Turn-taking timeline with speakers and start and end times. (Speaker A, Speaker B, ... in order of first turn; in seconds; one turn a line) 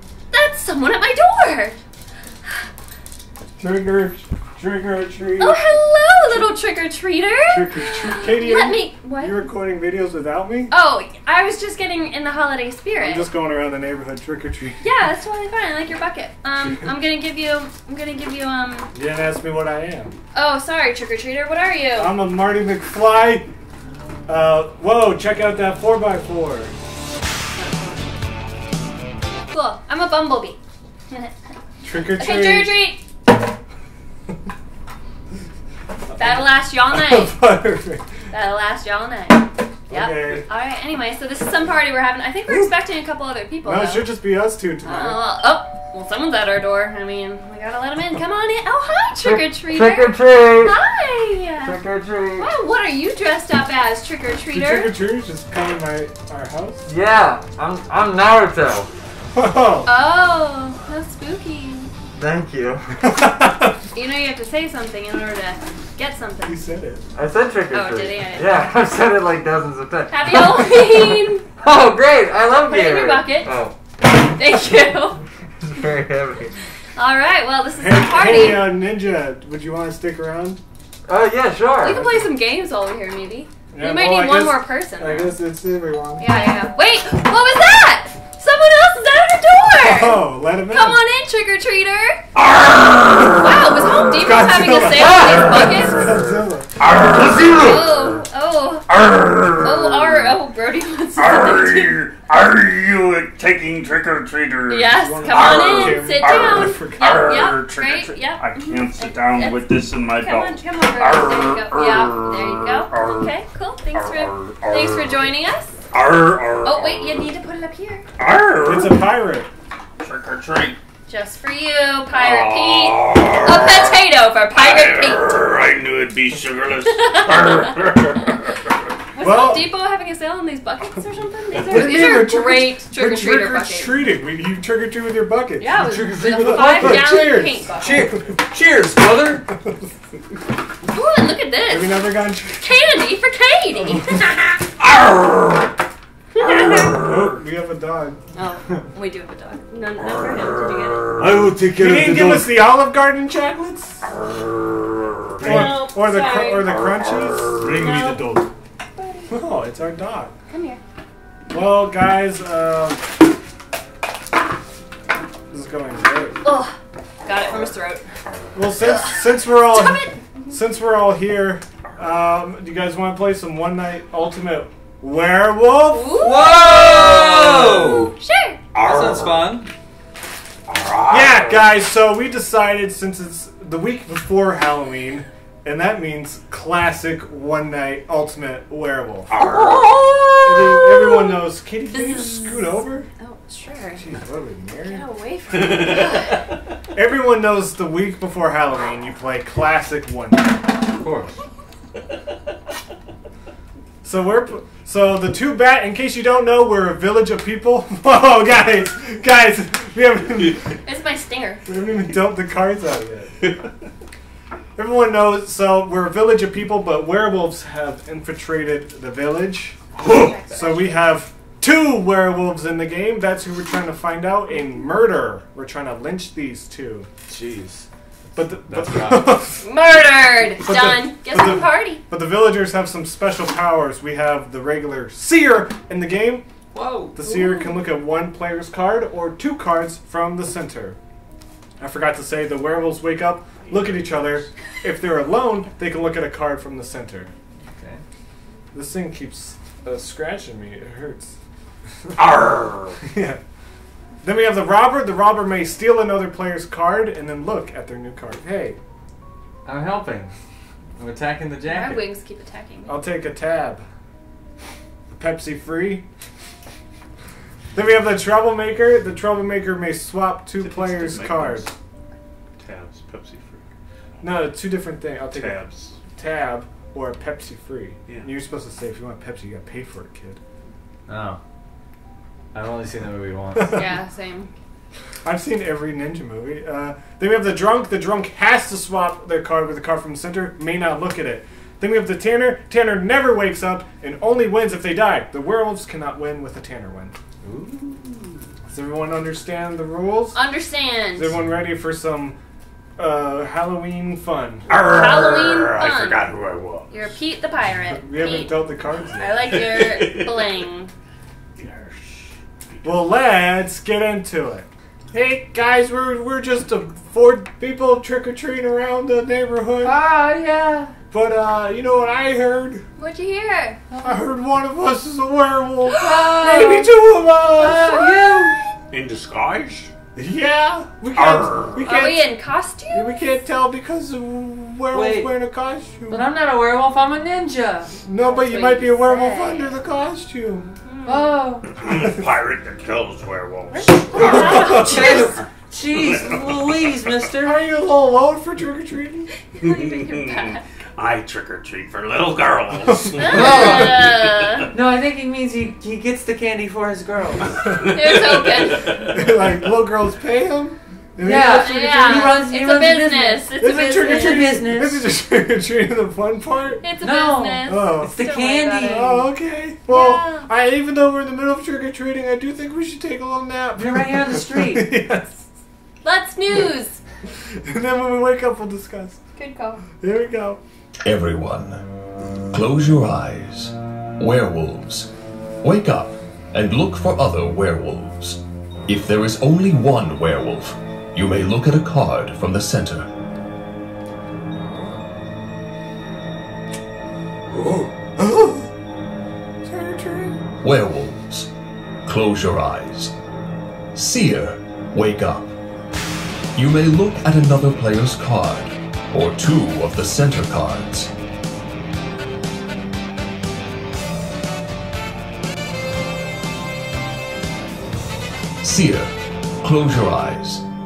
Speaker A: 0.3-1.8
Speaker B: 3.6-5.6
Speaker A: 5.4-9.4
Speaker B: 7.5-10.7
Speaker A: 10.7-13.3
Speaker B: 13.0-14.8
Speaker A: 14.8-18.9
Speaker B: 18.9-20.2
Speaker A: 20.3-22.2
Speaker B: 21.9-23.5
Speaker B: 24.3-26.7
Speaker A: 27.5-28.3
Speaker A: 29.5-30.6
Speaker B: 31.8-32.8
Speaker A: 32.0-33.0
Speaker B: 36.1-38.1
Speaker A: 36.2-37.4
Speaker A: 38.3-44.1
Speaker B: 39.9-40.4
Speaker B: 43.6-45.2
Speaker A: 44.8-51.8
Speaker C: 49.2-50.7
Speaker C: 51.6-52.5
Speaker A: 52.4-55.0
Speaker B: 54.5-56.9
Speaker C: 56.9-58.9
Speaker B: 59.3-59.9
Speaker A: 59.8-61.9
Speaker C: 62.1-62.9
Speaker B: 63.0-63.8
Speaker A: 63.9-66.6
Speaker B: 66.5-67.0
Speaker C: 67.1-73.8
Speaker A: 67.7-68.7
Speaker A: 70.1-71.4
Speaker A: 72.7-75.2
Speaker C: 75.6-76.5
Speaker A: 77.0-78.8
Speaker B: 77.8-80.6
Speaker C: 81.1-82.0
Speaker A: 81.8-85.4
Speaker B: 81.8-82.3
Speaker B: 83.7-86.3
Speaker A: 86.2-92.2
Speaker B: 89.7-91.0
Speaker D: 92.3-93.4
Speaker A: 93.3-96.1
Speaker B: 94.1-96.7
Speaker D: 96.8-98.0
Speaker A: 97.5-98.9
Speaker D: 98.9-100.0
Speaker A: 99.5-102.1
Speaker D: 101.2-113.3
Speaker A: 104.7-115.8
Speaker B: 104.9-107.2
Speaker D: 113.9-115.2
Speaker D: 115.9-117.3
Speaker A: 116.6-118.0
Speaker D: 118.2-119.1
Speaker B: 118.6-119.5
Speaker D: 120.0-120.8
Speaker A: 121.1-125.6
Speaker D: 122.1-124.0
Speaker D: 124.5-128.7
Speaker A: 126.9-128.5
Speaker A: 129.1-134.1
Speaker B: 129.2-129.7
Speaker B: 131.5-138.2
Speaker A: 135.6-138.0
Speaker C: 135.7-139.4
Speaker A: 140.9-144.6
Speaker B: 141.7-142.7
Speaker D: 144.9-145.2
Speaker A: 146.3-147.0
Speaker B: 146.9-148.2
Speaker A: 148.3-151.1
Speaker C: 151.2-152.7
Speaker B: 151.7-154.0
Speaker B: 155.4-157.7
Speaker A: 155.4-157.1
Speaker D: 157.6-158.4
Speaker C: 157.6-158.3
Speaker A: 157.7-158.3
Speaker A: 159.0-159.3
Speaker B: 159.3-160.3
Speaker A: 160.5-160.8
Speaker B: 161.5-163.0
Speaker B: 165.5-166.4
Speaker A: 166.4-168.0
Speaker B: 168.5-176.2
Speaker A: 168.8-170.3
Speaker A: 175.9-176.8
Speaker C: 176.1-178.1
Speaker D: 176.8-177.9
Speaker A: 178.0-178.6
Speaker D: 178.7-179.4
Speaker C: 178.8-179.7
Speaker D: 180.7-181.8
Speaker B: 181.1-189.3
Speaker D: 189.3-190.8
Speaker A: 189.4-190.1
Speaker B: 190.4-193.1
Speaker A: 190.8-194.0
Speaker B: 194.0-195.0
Speaker A: 194.8-196.4
Speaker D: 195.6-196.0
Speaker B: 196.9-200.6
Speaker C: 201.0-201.4
Speaker B: 204.0-210.8
Speaker A: 210.8-211.6
Speaker B: 211.7-213.4
Speaker B: 214.8-219.8
Speaker D: 220.0-220.3
Speaker A: 220.0-221.0
Speaker B: 220.5-227.1
Speaker C: 227.3-229.3
Speaker B: 228.3-229.6
Speaker A: 229.6-232.0
Speaker B: 230.6-236.4
Speaker C: 236.7-237.2
Speaker B: 237.1-241.0
Speaker A: 237.2-237.8
Speaker B: 241.8-247.3
Speaker D: 243.6-244.5
Speaker C: 247.7-248.0
Speaker B: 248.7-251.3
Speaker D: 252.2-253.0
Speaker B: 253.0-253.4
Speaker B: 254.2-258.8
Speaker C: 259.6-260.3
Speaker C: 261.0-262.0
Speaker A: 261.7-263.0
Speaker B: 262.9-263.8
Speaker B: 265.1-266.0
Speaker B: 267.7-271.7
Speaker D: 270.6-271.7
Speaker D: 272.6-273.6
Speaker B: 274.2-275.6
Speaker D: 275.3-276.0
Speaker B: 276.1-280.4
Speaker C: 281.1-281.4
Speaker C: 282.5-283.8
Speaker B: 283.5-283.9
Speaker A: 283.7-284.5
Speaker B: 285.2-297.2
Speaker D: 297.4-298.4
Speaker B: 298.7-300.4
Speaker A: 300.3-301.3
Speaker B: 301.1-302.4
Speaker B: 303.0-304.7
Speaker D: 304.7-306.9
Speaker A: 304.8-306.3
Speaker A: 306.9-310.9
Speaker B: 307.9-309.4
Speaker D: 309.4-310.7
Speaker D: 311.6-313.0
Speaker B: 312.8-320.0
Speaker C: 319.8-320.9
Speaker B: 321.1-322.8
Speaker A: 323.0-323.8
Speaker C: 323.9-324.2
Speaker B: 324.0-327.9
Speaker A: 325.9-326.9
Speaker C: 327.5-328.6
Speaker A: 327.8-328.7
Speaker D: 328.9-329.9
Speaker B: 330.1-332.4
Speaker D: 331.1-331.8
Speaker A: 331.8-333.4
Speaker B: 332.9-336.3
Speaker C: 334.9-335.3
Speaker C: 336.1-337.9
Speaker B: 338.0-340.7
Speaker A: 338.2-339.8
Speaker A: 340.8-341.4
Speaker C: 341.1-341.7
Speaker D: 341.6-346.7
Speaker C: 343.7-347.6
Speaker B: 344.2-344.9
Speaker A: 344.2-345.3
Speaker B: 347.4-349.3
Speaker A: 349.5-350.6
Speaker D: 349.6-354.7
Speaker A: 353.2-354.7
Speaker C: 353.2-354.0
Speaker B: 353.4-353.8
Speaker C: 354.7-357.6
Speaker D: 357.6-359.6
Speaker A: 357.8-359.1
Speaker B: 359.1-362.3
Speaker C: 361.2-365.0
Speaker A: 361.5-364.5
Speaker B: 363.6-366.8
Speaker A: 366.8-369.3
Speaker C: 367.0-369.1
Speaker B: 367.7-368.1
Speaker B: 368.8-375.4
Speaker A: 369.9-370.5
Speaker C: 373.7-374.9
Speaker A: 376.0-377.0
Speaker B: 377.6-379.2
Speaker A: 379.4-379.8
Speaker B: 380.0-380.6
Speaker E: 381.0-381.8
Speaker E: 382.5-385.1
Speaker E: 385.6-393.1
Speaker B: 397.5-398.7
Speaker B: 399.6-400.4
Speaker E: 400.6-401.5
Speaker E: 402.1-403.1
Speaker E: 403.9-405.5
Speaker E: 406.5-411.1
Speaker E: 418.6-420.6